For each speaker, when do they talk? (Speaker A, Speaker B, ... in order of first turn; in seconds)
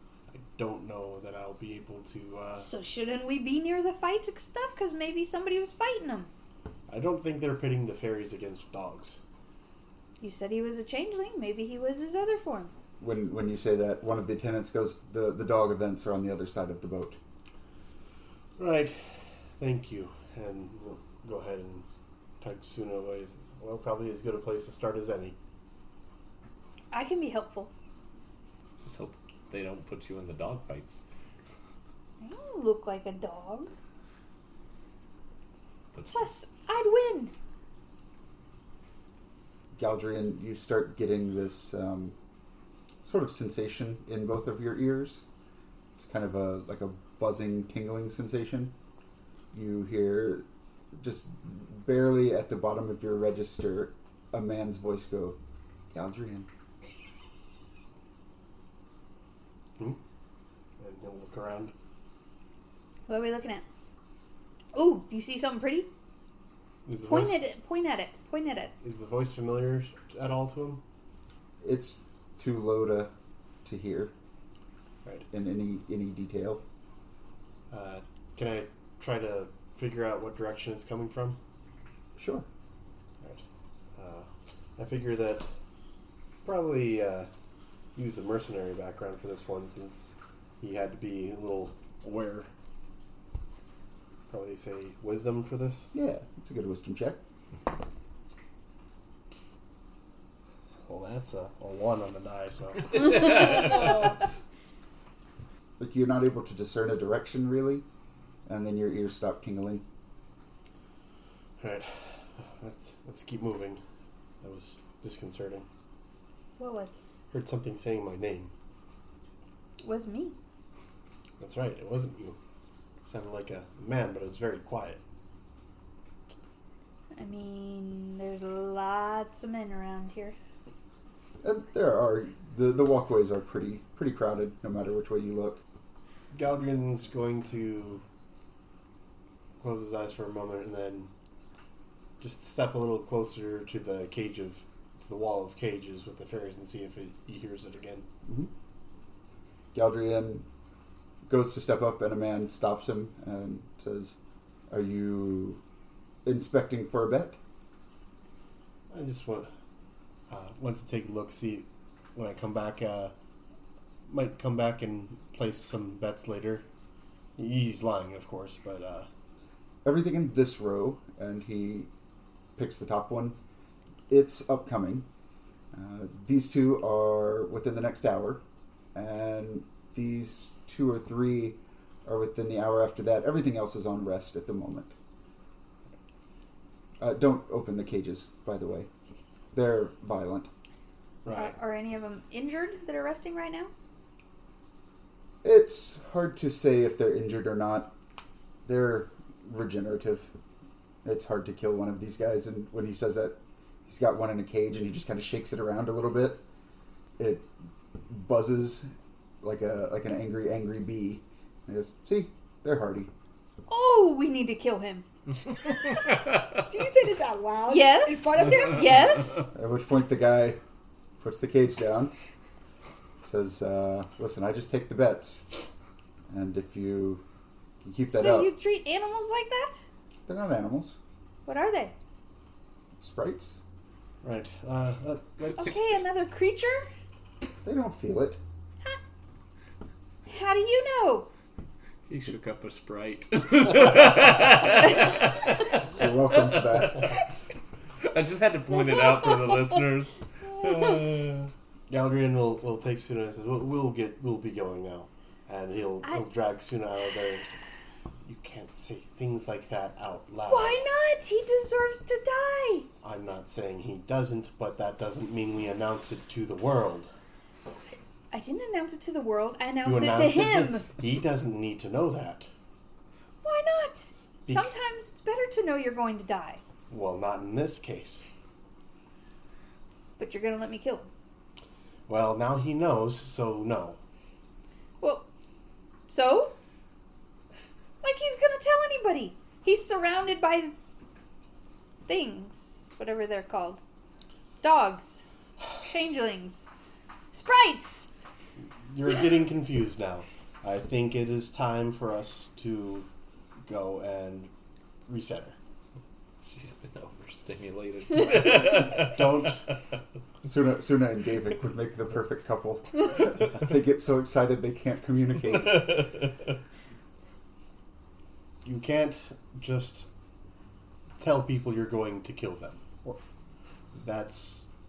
Speaker A: 0.3-2.7, 6.9-9.2, 18.6-21.9, 22.4-25.4, 60.8-61.7, 66.9-67.4, 68.8-70.8, 77.7-81.4, 84.0-85.5, 86.4-87.3, 88.0-92.5, 94.3-95.9, 100.9-104.2, 111.6-113.8, 114.4-115.7, 117.3-118.5, 121.4-122.4, 123.0-125.0, 136.3-138.0, 139.6-141.1, 142.2-148.1, 158.9-159.5, 160.3-163.1, 164.1-166.7, 167.4-169.1, 191.2-191.6, 234.2-235.8, 251.9-257.6, 258.2-260.8, 263.0-267.1, 269.8-272.5, 274.5-274.7, 276.9-278.2, 282.1-284.0, 298.9-303.1, 303.6-304.5, 305.1-305.6, 308.9-309.6, 318.6-320.1, 321.2-323.1, 323.9-324.7
Speaker B: 2.6-6.3, 10.2-12.7, 26.9-27.7, 32.2-33.7, 36.1-37.3, 63.1-63.6, 64.7-65.9, 67.1-68.7, 116.6-117.0, 119.8-120.4, 127.1-130.4, 191.3-193.7, 213.7-215.1, 217.7-219.5, 228.1-229.8, 231.5-231.9, 235.5-236.9, 240.3-241.3, 260.5-262.9, 268.3-270.9, 273.4-276.6, 280.2-281.1, 285.0-285.3, 286.1-286.5, 288.0-290.7, 292.1-293.8, 294.6-295.2, 295.8-296.7, 297.3-298.1
Speaker C: 13.0-17.2, 39.8-42.1, 43.0-45.2, 46.0-48.7, 49.5-55.4, 55.9-56.5, 71.6-73.1, 73.6-74.1, 75.3-76.6, 82.2-82.5, 95.9-97.2, 105.8-107.8, 108.5-109.8, 131.4-135.6, 149.7-150.5, 151.3-154.2, 154.7-155.6, 156.2-157.4, 169.8-171.9, 172.6-173.4, 174.1-175.1, 175.7-178.4, 178.9-185.0, 187.0-188.9, 189.5-190.5, 195.4-197.9, 198.7-200.3, 201.0-206.4, 207.2-207.5, 208.1-208.9, 209.4-213.1, 219.5-220.6, 221.2-222.1, 223.2-225.6, 226.3-227.2, 227.8-228.5, 230.3-231.0, 233.0-233.6, 237.6-238.4, 245.9-247.1, 310.4-316.1
Speaker D: 28.8-31.0, 35.9-36.2, 103.1-103.9, 242.1-247.0, 248.0-251.5, 306.4-309.6
Speaker E: 216.7-219.0